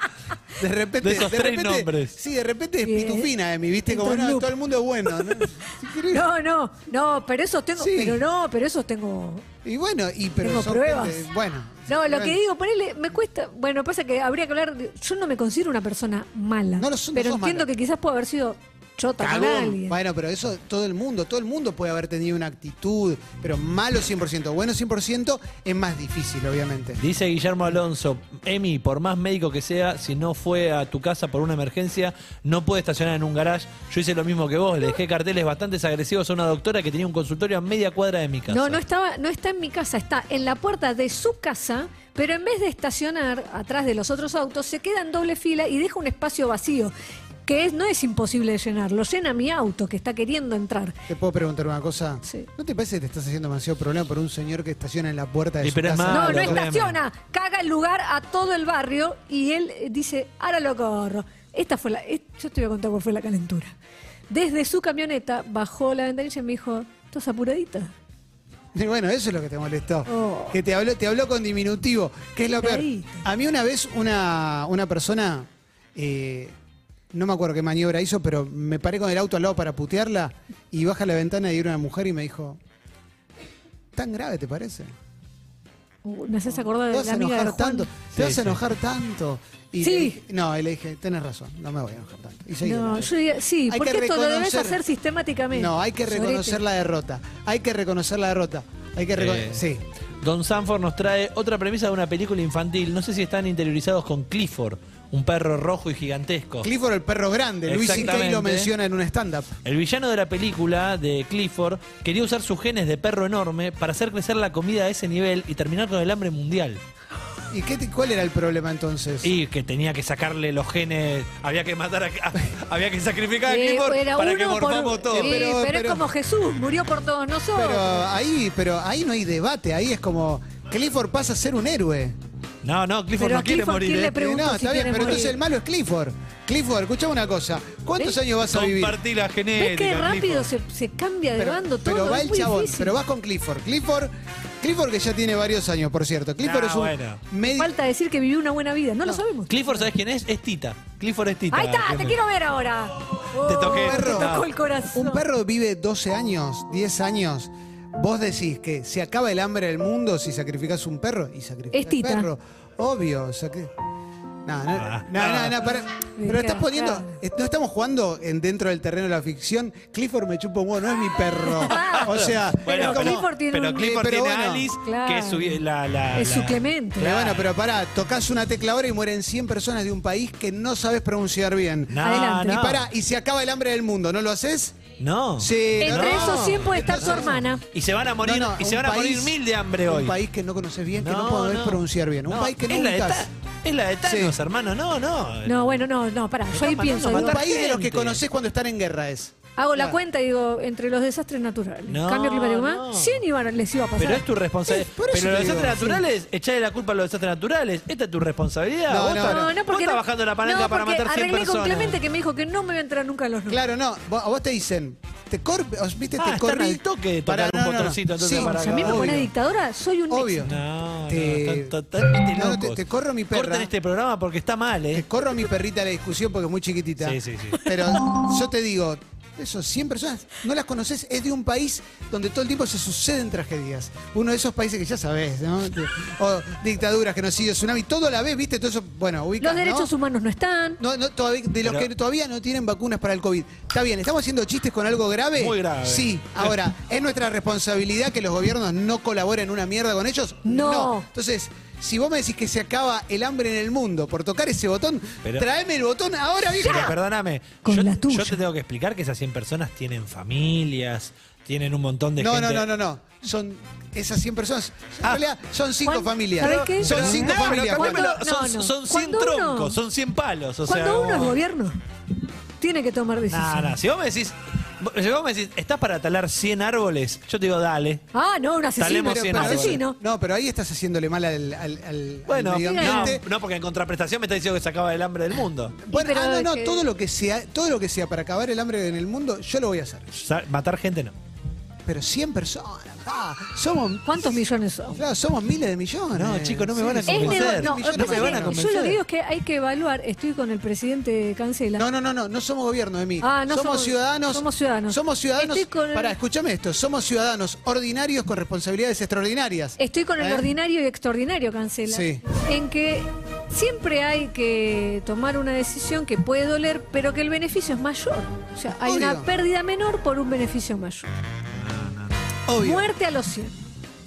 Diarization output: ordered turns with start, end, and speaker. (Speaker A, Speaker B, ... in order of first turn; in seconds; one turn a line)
Speaker A: 0.6-6.3
Speaker B: 1.0-2.1
Speaker C: 2.8-3.3
Speaker C: 3.9-4.5
Speaker C: 5.2-5.4
Speaker C: 6.1-9.4
Speaker A: 7.8-8.2
Speaker A: 9.6-12.4
Speaker C: 10.4-11.3
Speaker C: 11.9-20.0
Speaker A: 16.8-17.7
Speaker A: 19.2-27.0
Speaker B: 27.0-38.8
Speaker C: 38.5-46.9
Speaker C: 47.5-51.0
Speaker A: 51.1-56.6
Speaker B: 55.6-57.0
Speaker C: 56.1-63.7
Speaker C: 64.3-67.9
Speaker A: 68.7-76.5
Speaker C: 70.1-70.6
Speaker C: 72.6-73.2
Speaker A: 77.1-82.6
Speaker A: 83.9-84.9
Speaker C: 86.0-87.9
Speaker A: 86.5-93.1
Speaker B: 88.1-88.6
Speaker C: 89.8-90.2
Speaker C: 92.6-96.6
Speaker A: 93.7-94.8
Speaker A: 95.5-99.8
Speaker B: 99.2-99.6
Speaker B: 100.2-106.7
Speaker A: 106.6-109.5
Speaker B: 107.7-108.7
Speaker B: 109.6-116.8
Speaker A: 117.5-119.3
Speaker B: 119.2-125.4
Speaker C: 123.5-128.1
Speaker A: 125.1-126.0
Speaker A: 127.5-132.2
Speaker B: 132.6-134.2
Speaker C: 133.2-135.4
Speaker A: 134.1-139.0
Speaker B: 138.5-140.5
Speaker C: 139.6-142.9
Speaker A: 141.3-147.7
Speaker B: 146.4-147.2
Speaker C: 147.4-149.8
Speaker B: 149.5-152.2
Speaker C: 151.5-155.2
Speaker B: 153.4-154.5
Speaker A: 153.7-163.7
Speaker C: 161.7-162.3
Speaker A: 164.4-174.7
Speaker B: 164.7-165.6
Speaker C: 166.2-167.2
Speaker C: 171.4-173.9
Speaker B: 171.7-177.5
Speaker C: 174.8-175.6
Speaker C: 176.1-177.1
Speaker A: 177.0-184.8
Speaker B: 181.9-182.9
Speaker C: 182.0-182.7
Speaker B: 185.0-190.1
Speaker A: 185.4-187.4
Speaker C: 185.8-187.6
Speaker A: 188.2-193.3
Speaker B: 191.0-195.8
Speaker A: 194.0-194.3
Speaker C: 195.4-197.4
Speaker B: 196.5-198.2
Speaker A: 197.1-200.0
Speaker C: 199.6-204.2
Speaker B: 201.9-203.2
Speaker B: 204.0-212.0
Speaker A: 204.7-206.0
Speaker A: 208.9-209.5
Speaker C: 209.2-213.6
Speaker A: 213.5-219.3
Speaker B: 216.2-219.2
Speaker C: 218.3-220.4
Speaker A: 220.1-223.7
Speaker B: 220.4-225.1
Speaker A: 224.9-239.9
Speaker B: 227.0-227.6
Speaker C: 239.4-240.8
Speaker A: 240.8-256.9
Speaker B: 241.6-241.9
Speaker B: 245.4-246.6
Speaker C: 250.4-251.1
Speaker B: 256.6-262.6
Speaker C: 256.6-256.9
Speaker C: 257.6-258.4
Speaker A: 262.2-268.1
Speaker C: 265.8-269.8
Speaker B: 266.4-271.4
Speaker C: 270.6-271.8
Speaker C: 272.6-273.8
Speaker B: 273.3-278.0
Speaker C: 278.1-279.9
Speaker B: 278.8-279.8
Speaker A: 278.9-283.2
Speaker B: 282.3-285.8
Speaker C: 282.6-283.2
Speaker A: 285.8-290.1
Speaker C: 285.9-286.9
Speaker B: 290.1-291.1
Speaker A: 291.9-298.6
Speaker C: 294.1-295.0
Speaker B: 296.1-299.0
Speaker C: 297.1-301.8
Speaker A: 301.8-310.5
Speaker C: 303.2-306.1
Speaker C: 309.8-321.1
Speaker A: 311.9-312.2
Speaker A: 318.8-319.3
Speaker B: 321.6-322.2
Speaker A: 322.4-322.9
Speaker C: 322.6-323.6